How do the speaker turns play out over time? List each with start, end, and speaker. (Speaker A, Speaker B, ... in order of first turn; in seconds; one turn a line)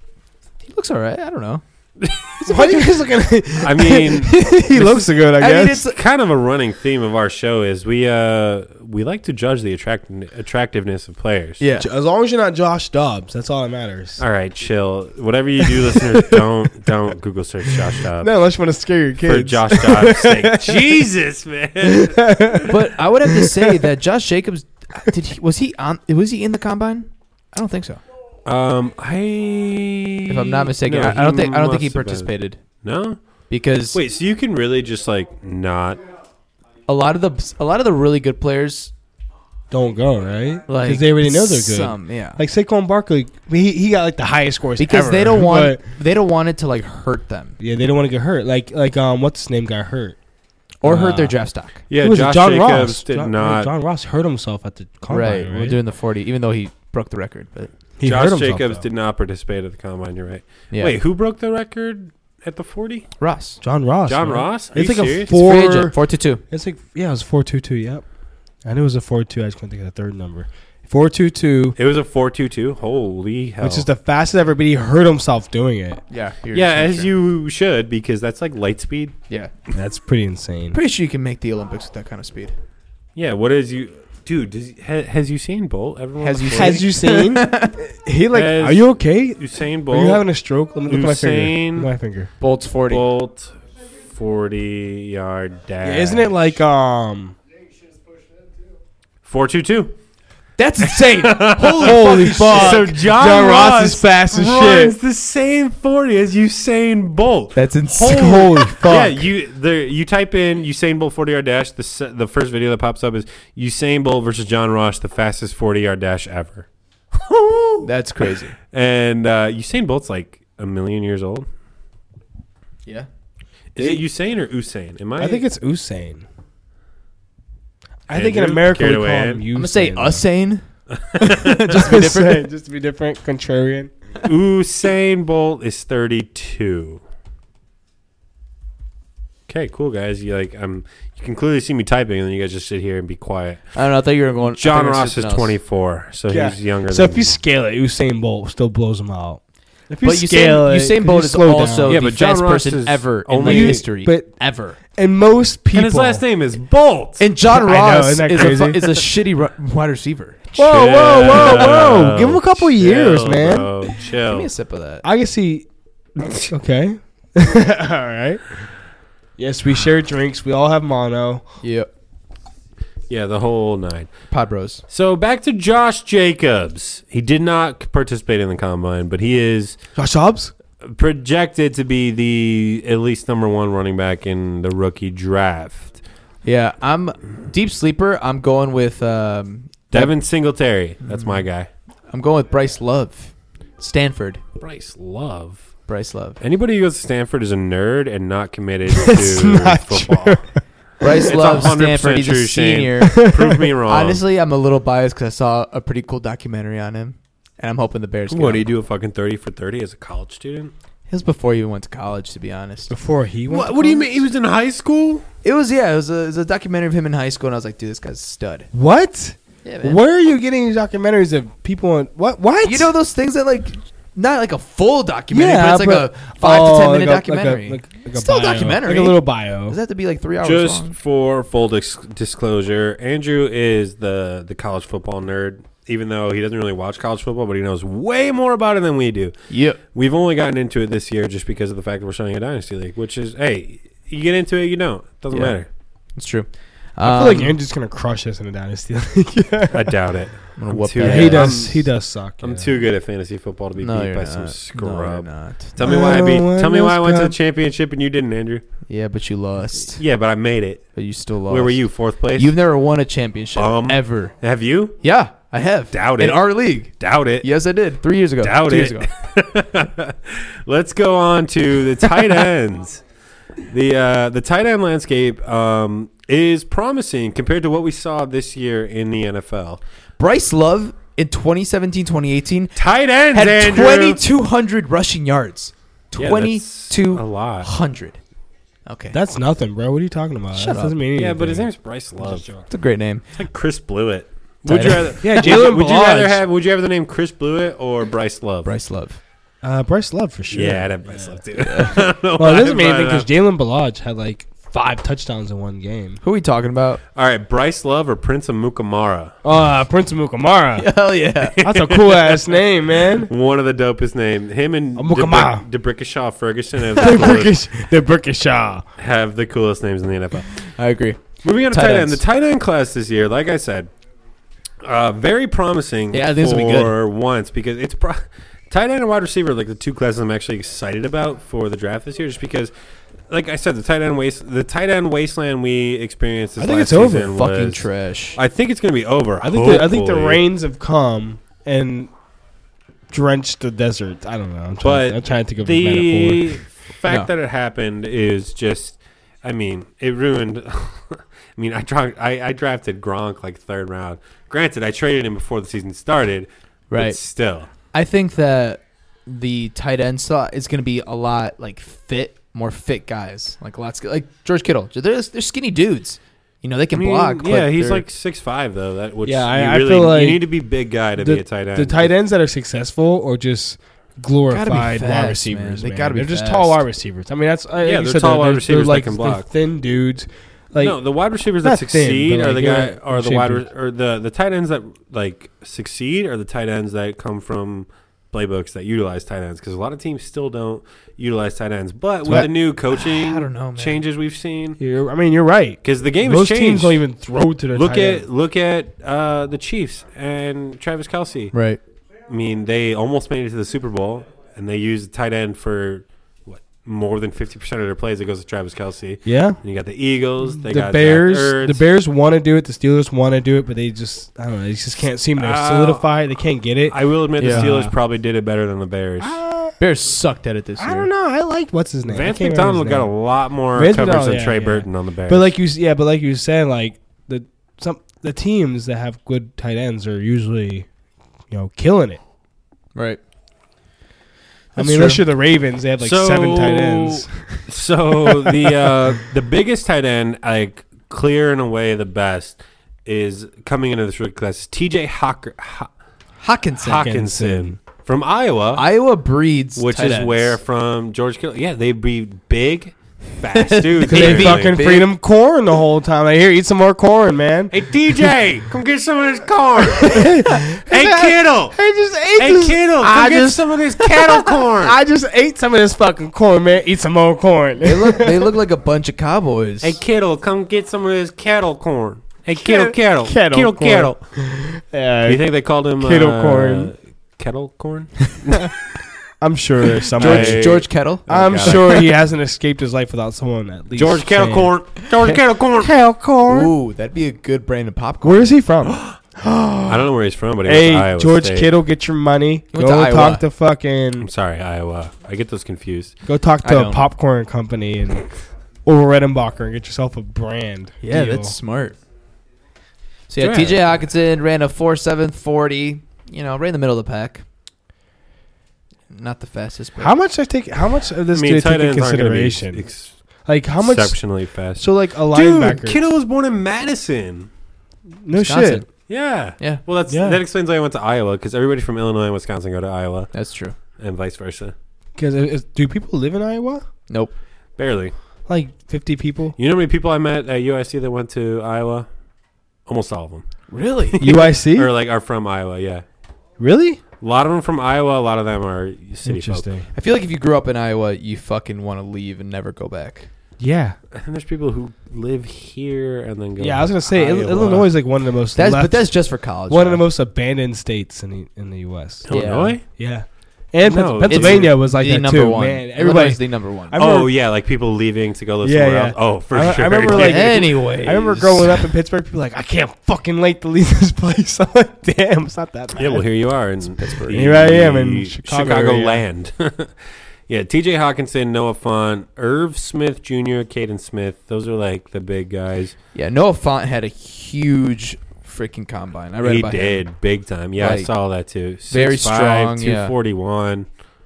Speaker A: 0.6-1.6
Speaker B: 2.0-2.8
Speaker C: 2.4-5.8
Speaker B: 3.6-5.1
Speaker A: 5.4-6.0
Speaker B: 5.8-11.6
Speaker A: 11.6-11.9
Speaker C: 11.8-14.2
Speaker B: 14.2-18.3
Speaker C: 18.2-21.0
Speaker B: 19.2-22.6
Speaker C: 21.8-22.7
Speaker A: 22.7-28.0
Speaker C: 23.3-23.8
Speaker B: 28.4-32.3
Speaker A: 30.3-32.6
Speaker B: 32.8-33.2
Speaker A: 33.5-34.0
Speaker B: 33.9-36.0
Speaker A: 36.9-38.9
Speaker C: 39.7-45.8
Speaker A: 40.7-42.4
Speaker A: 44.8-47.6
Speaker C: 47.6-50.2
Speaker A: 50.8-51.8
Speaker C: 50.8-51.4
Speaker B: 51.9-53.7
Speaker C: 51.9-55.8
Speaker A: 55.1-57.7
Speaker C: 58.0-58.8
Speaker B: 58.0-63.1
Speaker A: 60.7-61.0
Speaker A: 63.2-63.6
Speaker C: 63.6-66.0
Speaker B: 64.1-65.4
Speaker A: 65.3-66.4
Speaker C: 66.5-68.0
Speaker C: 68.6-71.8
Speaker B: 71.8-73.9
Speaker C: 73.6-76.0
Speaker A: 76.1-77.1
Speaker B: 76.5-79.1
Speaker C: 79.7-80.8
Speaker A: 80.7-82.5
Speaker B: 83.2-86.9
Speaker A: 86.2-87.7
Speaker C: 86.5-92.3
Speaker B: 88.3-90.2
Speaker B: 90.9-91.9
Speaker A: 92.4-93.0
Speaker B: 92.9-93.5
Speaker B: 94.1-96.6
Speaker C: 95.8-97.4
Speaker B: 99.3-99.9
Speaker A: 100.6-103.0
Speaker B: 100.8-121.5
Speaker C: 101.6-105.0
Speaker A: 107.5-109.2
Speaker C: 108.0-109.1
Speaker A: 117.8-118.5
Speaker B: 123.7-125.4
Speaker C: 125.2-126.3
Speaker C: 128.1-130.2
Speaker B: 128.1-129.4
Speaker A: 129.5-132.4
Speaker B: 130.9-131.8
Speaker C: 131.7-133.9
Speaker B: 134.2-137.0
Speaker B: 139.5-143.6
Speaker A: 143.7-145.5
Speaker B: 144.5-147.4
Speaker C: 146.3-152.0
Speaker A: 150.0-154.8
Speaker B: 151.9-153.8
Speaker C: 153.4-156.2
Speaker B: 155.7-157.3
Speaker A: 157.2-160.4
Speaker C: 157.5-158.9
Speaker C: 160.5-163.7
Speaker B: 160.6-164.5
Speaker A: 164.2-165.0
Speaker C: 165.0-165.7
Speaker B: 166.2-166.5
Speaker C: 166.5-168.6
Speaker C: 169.4-171.4
Speaker A: 171.6-171.9
Speaker B: 173.1-174.1
Speaker A: 174.3-174.8
Speaker B: 174.9-179.8
Speaker C: 179.9-180.5
Speaker B: 180.8-186.0
Speaker A: 186.4-190.1
Speaker B: 189.9-191.7
Speaker A: 191.1-191.4
Speaker A: 192.1-194.4
Speaker B: 194.6-195.7
Speaker A: 195.9-196.4
Speaker B: 196.4-200.4
Speaker C: 198.9-200.5
Speaker A: 201.0-203.2
Speaker B: 201.2-204.2
Speaker C: 203.1-203.6
Speaker A: 203.8-208.7
Speaker B: 208.3-210.7
Speaker A: 211.1-212.9
Speaker C: 212.9-214.2
Speaker B: 213.5-215.2
Speaker A: 215.4-218.7
Speaker C: 218.7-222.9
Speaker A: 219.6-220.0
Speaker A: 222.6-230.9
Speaker C: 225.3-229.8
Speaker B: 230.4-239.3
Speaker A: 239.5-239.8
Speaker B: 239.9-245.7
Speaker A: 245.3-245.6
Speaker A: 246.1-247.6
Speaker C: 247.0-250.0
Speaker B: 249.7-258.6
Speaker A: 250.6-251.7
Speaker C: 251.0-252.7
Speaker A: 253.8-255.9
Speaker C: 255.8-257.3
Speaker A: 258.9-260.0
Speaker B: 259.9-260.9
Speaker A: 260.9-261.8
Speaker B: 261.5-262.6
Speaker A: 262.3-264.3
Speaker B: 263.6-265.0
Speaker A: 265.0-269.1
Speaker B: 265.9-266.4
Speaker B: 267.0-267.5
Speaker B: 268.4-273.0
Speaker B: 273.7-279.8
Speaker A: 280.2-282.8
Speaker B: 282.8-284.2
Speaker A: 283.3-288.2
Speaker B: 286.1-287.7
Speaker A: 288.9-289.1
Speaker C: 289.1-291.7
Speaker A: 290.5-291.0
Speaker B: 291.1-292.7
Speaker A: 292.6-293.3
Speaker B: 293.4-298.7
Speaker A: 294.6-295.2
Speaker C: 295.2-296.4
Speaker A: 298.6-299.2
Speaker C: 299.6-301.4
Speaker B: 300.5-303.3
Speaker A: 301.7-302.0
Speaker C: 302.4-306.2
Speaker A: 306.2-307.0
Speaker B: 307.1-309.3
Speaker C: 309.4-310.9
Speaker A: 310.8-311.6
Speaker C: 311.4-313.3
Speaker B: 311.6-317.6
Speaker C: 315.0-315.6
Speaker C: 316.9-318.9
Speaker B: 319.0-320.6
Speaker A: 320.7-322.2
Speaker B: 321.4-323.9
Speaker B: 324.8-332.7
Speaker A: 326.1-326.9
Speaker B: 333.3-340.4
Speaker C: 336.6-337.3
Speaker A: 337.2-338.4
Speaker C: 339.4-342.1
Speaker C: 343.1-346.6
Speaker B: 344.8-357.7
Speaker A: 347.1-347.3
Speaker A: 356.9-357.2
Speaker A: 357.9-368.1
Speaker B: 366.9-372.1
Speaker C: 369.2-370.4
Speaker C: 371.2-381.0
Speaker A: 374.5-376.8
Speaker B: 377.8-379.4
Speaker B: 380.8-394.8
Speaker C: 381.6-383.6
Speaker A: 392.3-394.0
Speaker C: 394.8-398.2
Speaker B: 395.8-397.0
Speaker B: 397.7-401.5
Speaker A: 401.5-401.8
Speaker B: 402.3-411.8
Speaker C: 409.2-409.6
Speaker C: 410.6-417.9
Speaker B: 415.4-416.1
Speaker B: 416.9-419.4
Speaker A: 417.4-417.7
Speaker C: 419.2-419.8
Speaker A: 419.8-421.1
Speaker C: 420.8-423.1
Speaker B: 422.1-425.5
Speaker C: 423.7-430.9
Speaker C: 431.5-432.2
Speaker A: 432.9-433.2
Speaker A: 434.7-435.2
Speaker C: 434.8-437.6
Speaker B: 436.0-445.9
Speaker C: 438.3-438.7
Speaker A: 446.4-447.1
Speaker B: 446.8-448.9
Speaker C: 447.0-447.8
Speaker A: 448.7-450.6
Speaker B: 449.8-454.7
Speaker A: 453.5-455.1
Speaker C: 454.1-457.7
Speaker B: 457.7-461.8
Speaker C: 460.0-468.4
Speaker B: 462.4-465.0
Speaker A: 467.8-470.0
Speaker B: 469.8-474.2
Speaker C: 472.6-475.4
Speaker B: 475.3-478.6
Speaker C: 476.0-476.9
Speaker C: 479.4-484.7
Speaker B: 480.1-482.0
Speaker A: 480.2-482.0
Speaker B: 483.9-485.9
Speaker C: 485.2-486.7
Speaker A: 486.5-488.6
Speaker C: 488.2-489.0
Speaker A: 489.4-489.9
Speaker B: 489.8-491.7
Speaker C: 490.6-494.3
Speaker A: 492.7-493.4
Speaker B: 494.2-496.1
Speaker C: 496.3-498.3
Speaker A: 496.6-497.1
Speaker C: 498.8-501.6
Speaker A: 501.0-502.0
Speaker A: 503.3-507.4
Speaker B: 503.4-503.8
Speaker A: 509.1-510.1
Speaker C: 510.0-512.8
Speaker B: 511.3-513.1
Speaker C: 513.4-516.0
Speaker B: 513.8-517.5
Speaker C: 518.2-518.8
Speaker A: 518.3-518.8
Speaker B: 519.1-523.3
Speaker C: 520.1-520.4
Speaker A: 523.3-523.7
Speaker B: 524.0-524.7
Speaker C: 525.1-526.8
Speaker A: 527.1-527.3
Speaker B: 527.8-528.1
Speaker C: 528.5-529.5
Speaker B: 529.6-532.1
Speaker B: 532.9-533.4
Speaker A: 533.7-534.2
Speaker B: 534.1-536.0
Speaker C: 534.2-534.9
Speaker C: 536.6-537.0
Speaker B: 537.2-539.7
Speaker C: 539.2-539.9
Speaker A: 539.9-543.3
Speaker C: 543.6-544.0
Speaker B: 544.1-547.9
Speaker C: 546.6-549.1
Speaker A: 548.5-550.0
Speaker C: 549.7-557.3
Speaker B: 552.3-552.8
Speaker A: 552.3-552.8
Speaker B: 553.8-554.7
Speaker A: 554.3-557.0
Speaker B: 557.0-560.7
Speaker C: 558.6-566.2
Speaker A: 560.1-561.8
Speaker B: 566.0-569.9
Speaker A: 567.0-567.6
Speaker C: 567.3-569.2
Speaker B: 570.5-575.9
Speaker A: 576.1-580.0
Speaker B: 579.4-583.9
Speaker A: 580.8-581.1
Speaker A: 581.9-583.1